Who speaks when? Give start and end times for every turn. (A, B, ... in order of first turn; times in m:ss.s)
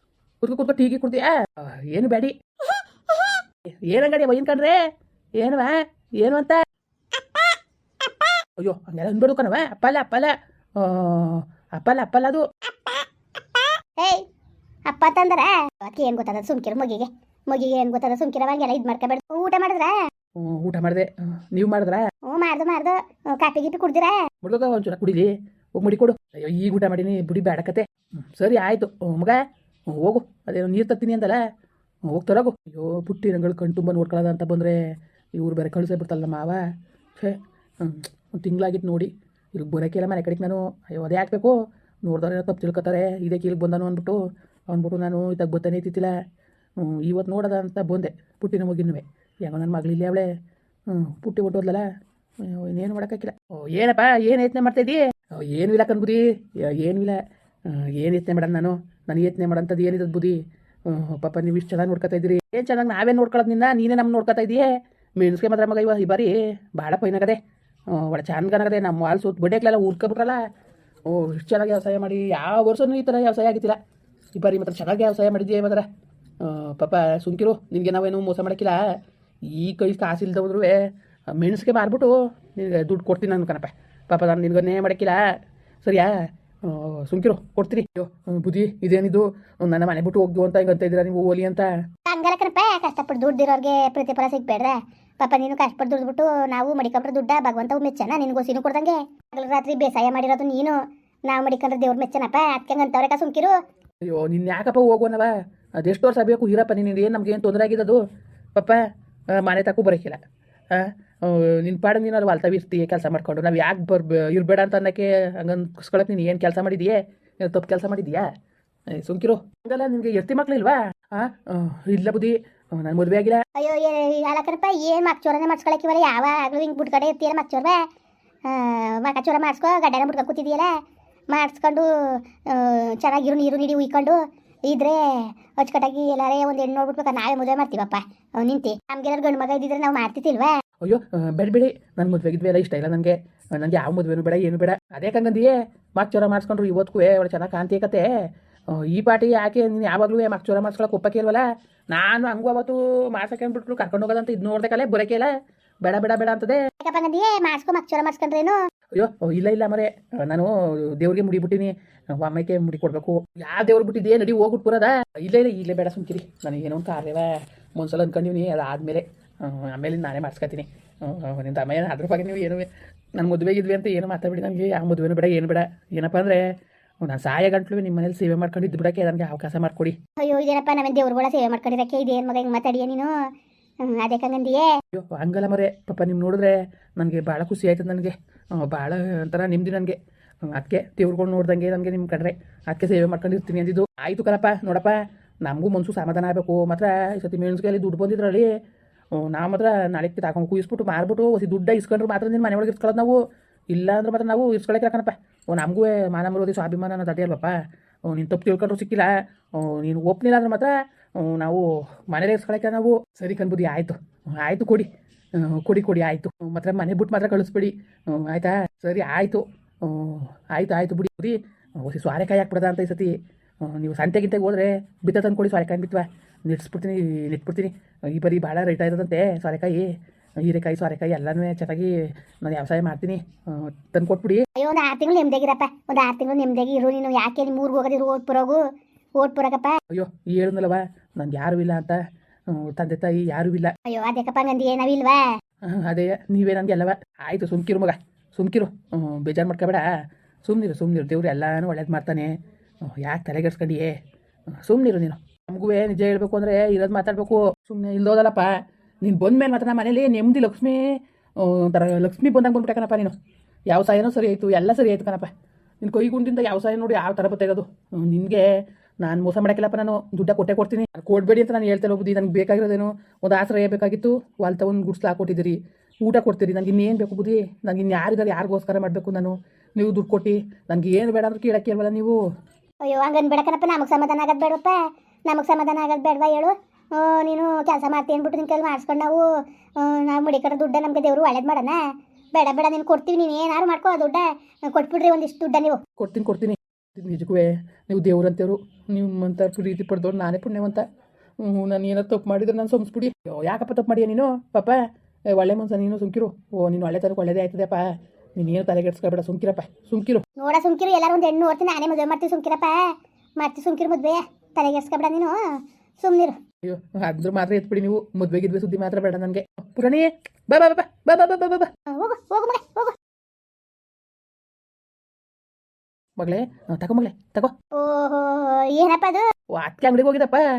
0:00.4-0:04.8 A
0:05.4-0:06.6 A
0:07.2-0:07.5 B
0:08.6-0:12.4 A
0:12.8-0:14.2 B
0:14.9-0:19.9 B
0:20.4-0:22.0 A
0:22.2-0:24.2 B
0:24.4-0:29.4 A
0:29.9-0:31.4 A
0:32.1-0:36.6 A
0:37.2-0:44.2 A
0:44.7-0:46.1 A
0:46.8-0:50.3 A
0:50.9-0:51.8 A
0:52.4-1:10.4 A
1:11.1-1:13.8 A
1:14.3-1:15.9 A
1:16.4-1:18.8 A
1:19.4-1:25.2 A
1:25.8-1:26.1 A
1:26.6-1:31.7 A
1:32.1-1:40.8 B
1:41.3-1:43.5 B
1:44.1-1:48.0 A
1:48.5-1:48.8 A
1:49.3-1:50.2 A
1:50.7-1:58.3 A
1:58.9-2:03.4 A
2:03.6-2:07.8 B
2:08.5-2:10.7 B
2:11.3-2:20.5 B
2:20.8-2:28.1 A
2:28.7-2:35.3 A
2:35.8-2:36.6 A
2:36.8-2:38.6 B
2:38.9-2:56.4 A
2:57.0-3:00.0 A
3:00.2-3:03.1 B
3:03.8-3:04.7 B
3:04.9-3:18.5 A
3:19.1-3:23.2 A
3:23.7-3:27.6 A
3:28.1-3:54.4 A
3:54.6-3:58.6 B
3:59.2-3:59.8 B
3:59.9-4:03.7 A
4:03.9-4:05.2 B
4:05.6-4:09.8 A
4:10.4-4:14.0 A
4:14.6-4:20.8 A
4:21.4-4:23.1 A
4:23.7-4:25.3 A
4:25.8-4:42.2 A
4:42.8-4:44.8 B
4:45.3-4:49.2 B
4:49.8-4:51.8 B
4:52.3-4:55.8 B
4:56.0-5:00.8 A
5:01.4-5:04.8 A
5:05.3-5:10.2 A
5:10.4-5:12.8 B
5:13.4-5:15.4 B
5:16.0-5:16.4 B
5:16.6-5:21.7 A
5:21.9-5:22.9 B
5:26.2-5:27.5 A
5:27.8-5:29.2 B
5:29.5-5:30.4 A